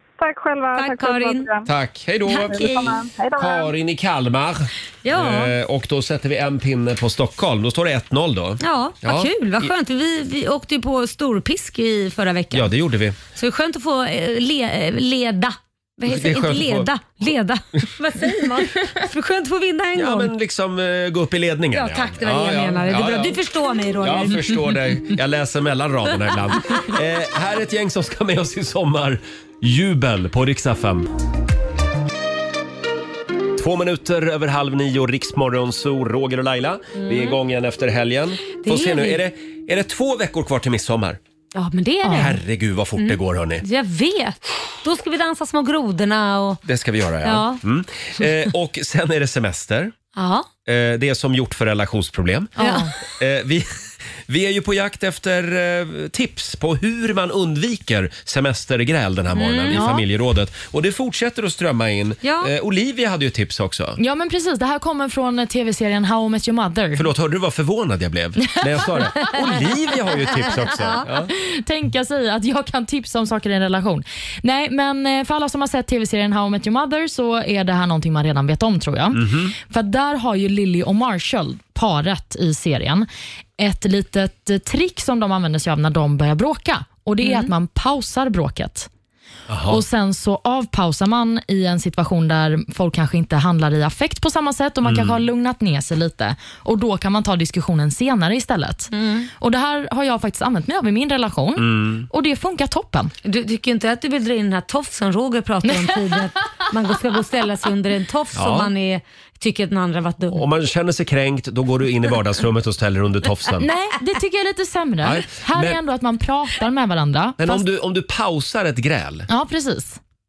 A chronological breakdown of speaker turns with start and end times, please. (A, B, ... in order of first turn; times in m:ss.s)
0:00.2-0:01.7 A
0:00.8-0:01.5 B
0:01.6-0:09.3 C
0:02.3-0:03.0 B
0:02.5-0:03.7 A
0:05.0-0:05.5 B
0:08.6-0:12.7 B
0:12.5-0:13.2 C
0:13.3-0:20.3 B
0:16.0-0:16.9 C
0:19.9-0:23.4 C
0:21.7-0:24.6 B
0:24.0-0:31.1 C
0:33.5-0:41.2 C
0:37.0-0:37.4 B
0:38.6-0:39.2 B
0:41.5-0:42.4 B
0:42.0-0:43.6 C
0:43.0-0:46.6 B
0:46.6-0:49.9 C
0:47.2-0:47.6 B
0:50.1-0:50.5 B
0:50.6-0:53.7 C
0:52.6-0:52.9 D
0:52.6-0:52.9 B
0:54.3-1:04.0 C
0:59.3-0:59.8 B
0:59.7-1:00.0 D
1:02.2-1:02.5 B
1:04.0-1:07.0 D
1:07.0-1:11.3 C
1:10.6-1:11.0 B
1:11.3-1:23.1 D
1:19.1-1:19.5 C
1:23.6-1:28.9 D
1:27.2-1:27.5 B
1:29.5-1:29.8 C
1:29.7-1:43.1 D
1:34.8-1:35.2 C
1:38.9-1:39.3 B
1:41.6-1:42.1 C
1:43.2-1:50.4 B
1:45.6-1:46.2 D
1:48.3-1:48.7 C
1:50.3-1:53.6 C
1:53.6-1:57.6 D
1:55.0-1:55.8 C
1:57.4-1:59.3 C
1:59.3-2:00.0 D